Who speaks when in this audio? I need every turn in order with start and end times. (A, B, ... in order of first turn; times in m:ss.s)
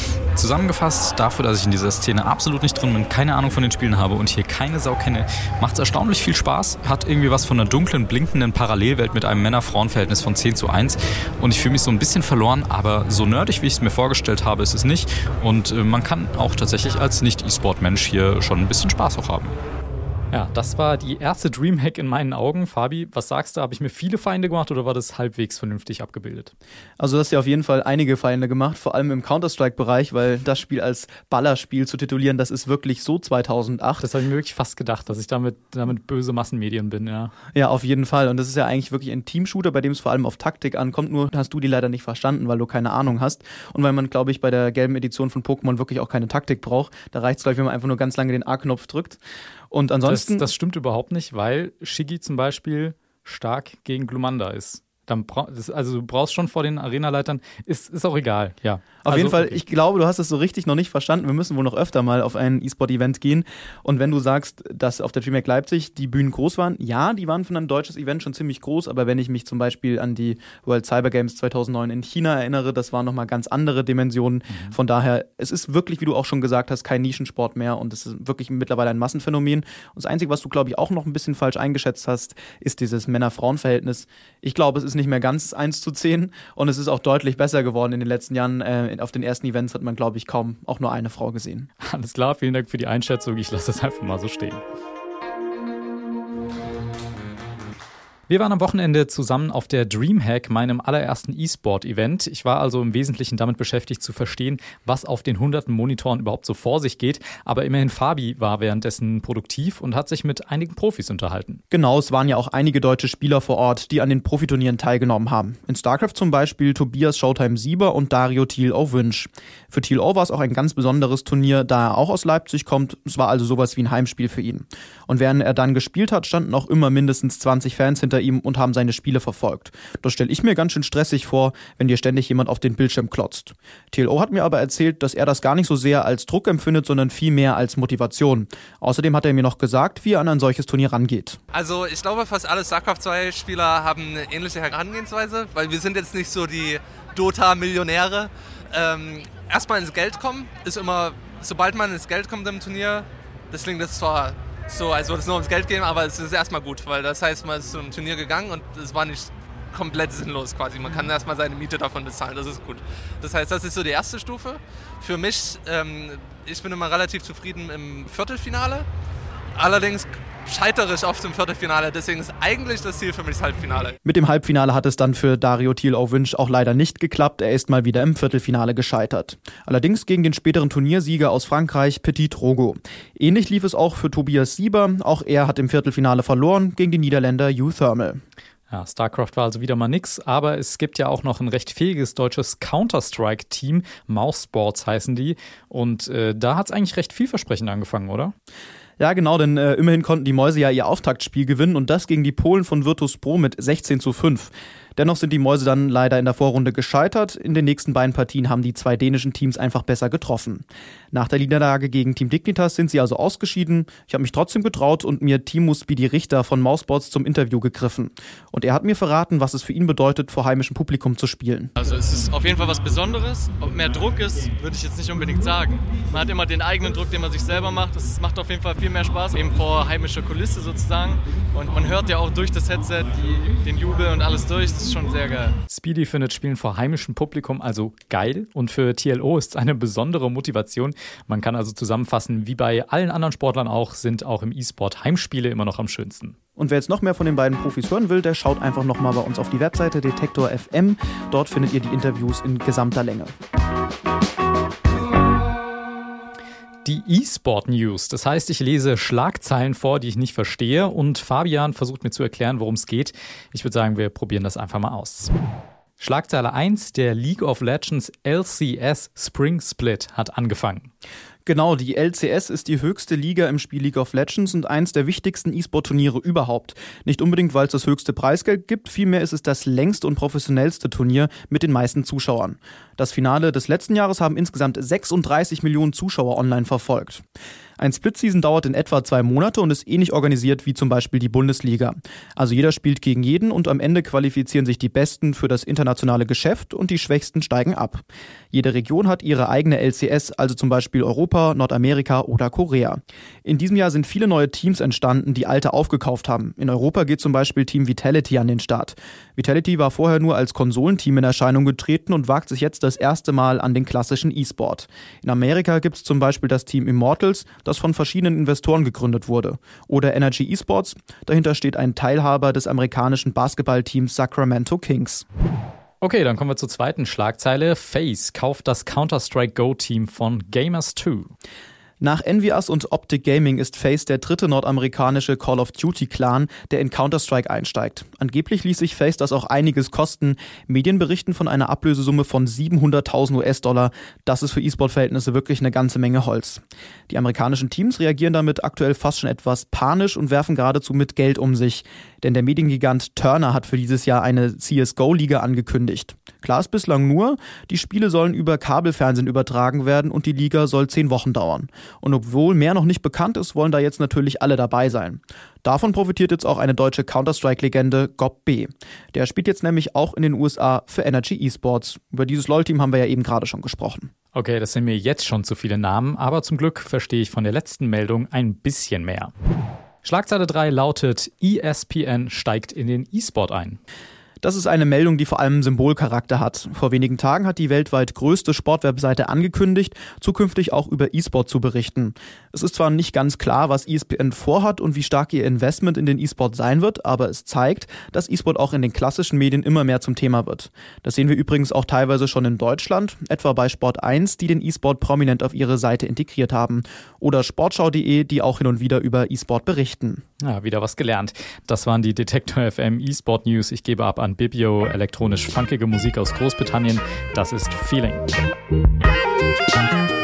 0:00.3-0:19.5 A
0:20.3-0:26.5 B
0:27.0-0:34.1 C
0:34.0-0:37.3 B
0:37.5-0:50.5 C
0:50.1-0:59.6 B
0:59.0-1:31.7 C
1:14.5-1:14.8 B
1:31.8-1:34.6 B
1:38.3-1:51.6 B
1:51.7-2:21.4 C
2:21.5-2:48.9 D
2:49.6-2:54.0 D
2:54.0-3:08.2 C
3:08.7-3:18.3 B
3:19.0-3:41.7 C
3:41.8-3:55.6 E
3:55.7-4:06.4 B
4:06.6-4:13.3 C
4:16.8-4:25.3 B
4:26.0-4:30.9 B
4:31.5-4:47.2 C
4:47.8-5:25.2 C
5:26.0-5:31.3 B
5:32.0-6:14.1 C
6:14.3-6:19.3 B
6:20.0-6:23.8 B
6:24.4-6:50.2 C
6:50.4-6:58.3 B